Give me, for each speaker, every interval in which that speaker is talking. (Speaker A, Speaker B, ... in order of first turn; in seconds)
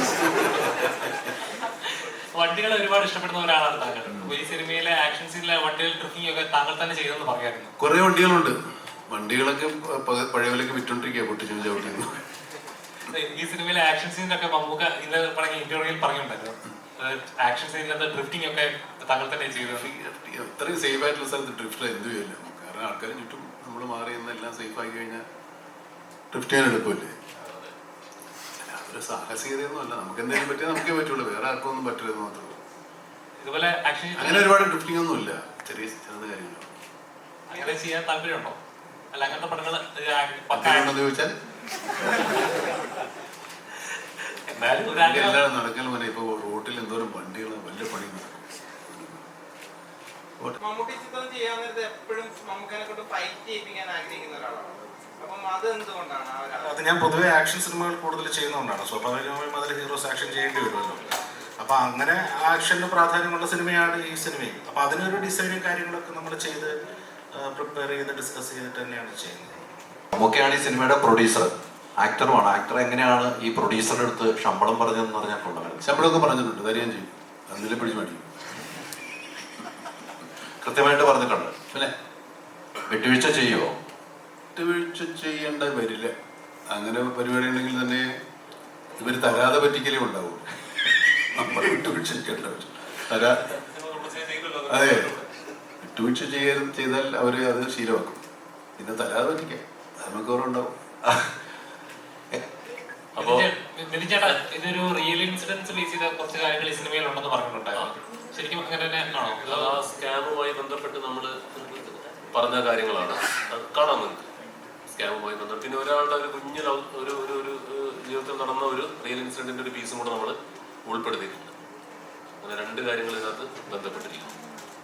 Speaker A: 1.6-7.7, 13.1-19.9, 33.4-34.5, 37.5-38.6, 39.1-41.0, 42.1-42.6, 44.5-45.4, 103.2-109.8
Speaker B: 7.8-8.6, 9.1-12.2, 19.7-25.2, 26.3-27.2, 28.6-32.6, 34.2-36.7, 40.5-41.3, 44.9-49.2, 75.8-78.3, 84.5-86.1, 86.7-88.1, 89.0-90.5, 91.3-93.4, 94.7-95.2, 95.8-98.2, 98.8-101.3
Speaker C: 50.6-56.8
Speaker D: 56.6-66.7, 67.4-69.7
Speaker E: 70.2-75.8, 80.6-81.6, 82.9-83.7
Speaker F: 93.4-95.3, 103.2-103.5, 109.4-114.3, 114.9-121.5, 122.4-124.3